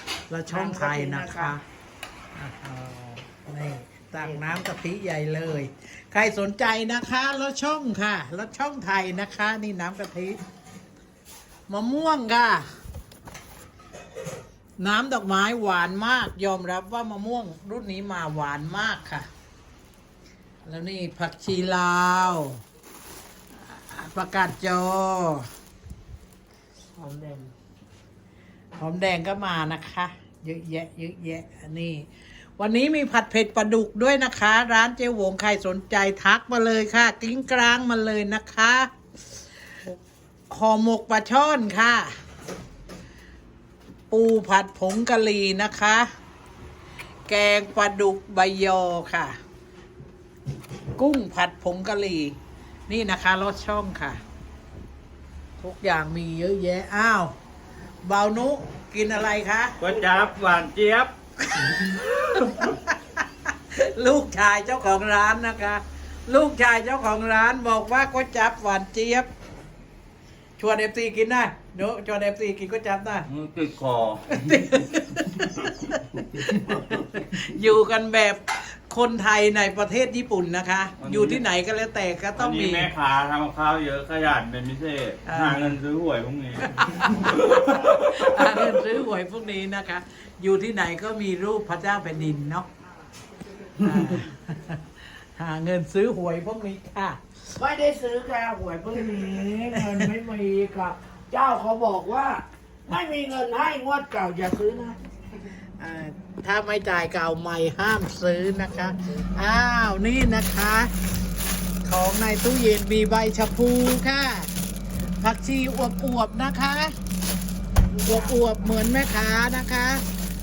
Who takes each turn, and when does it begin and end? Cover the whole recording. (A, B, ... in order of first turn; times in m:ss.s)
0:00.3-0:01.6 A
0:00.5-0:01.5 B
0:02.4-0:10.4 A
0:04.2-0:04.5 B
0:11.7-0:12.7 A
0:14.8-0:19.3 A
0:20.6-0:22.6 A
0:23.6-0:25.5 A
0:27.0-0:27.5 B
0:28.8-0:32.0 A
0:32.6-0:38.9 A
0:40.5-0:42.1 A
0:44.1-0:46.1 A
0:47.3-0:49.3 A
0:51.0-0:52.4 A
0:52.9-0:54.2 A
0:55.6-0:57.3 A
0:58.0-0:59.8 A
0:59.8-1:01.1 C
1:01.5-1:09.3 A
1:10.6-1:13.3 A
1:13.3-1:14.6 C
1:14.3-1:22.9 A
1:21.0-1:21.4 C
1:22.4-1:28.2 C
1:25.3-1:25.7 A
1:26.7-1:32.7 A
1:33.8-1:34.8 A
1:35.4-1:37.2 A
1:37.6-1:45.0 B
1:45.8-1:50.9 A
1:51.8-1:54.5 A
1:55.2-1:56.9 A
1:57.9-1:58.8 B
1:58.0-2:00.0 A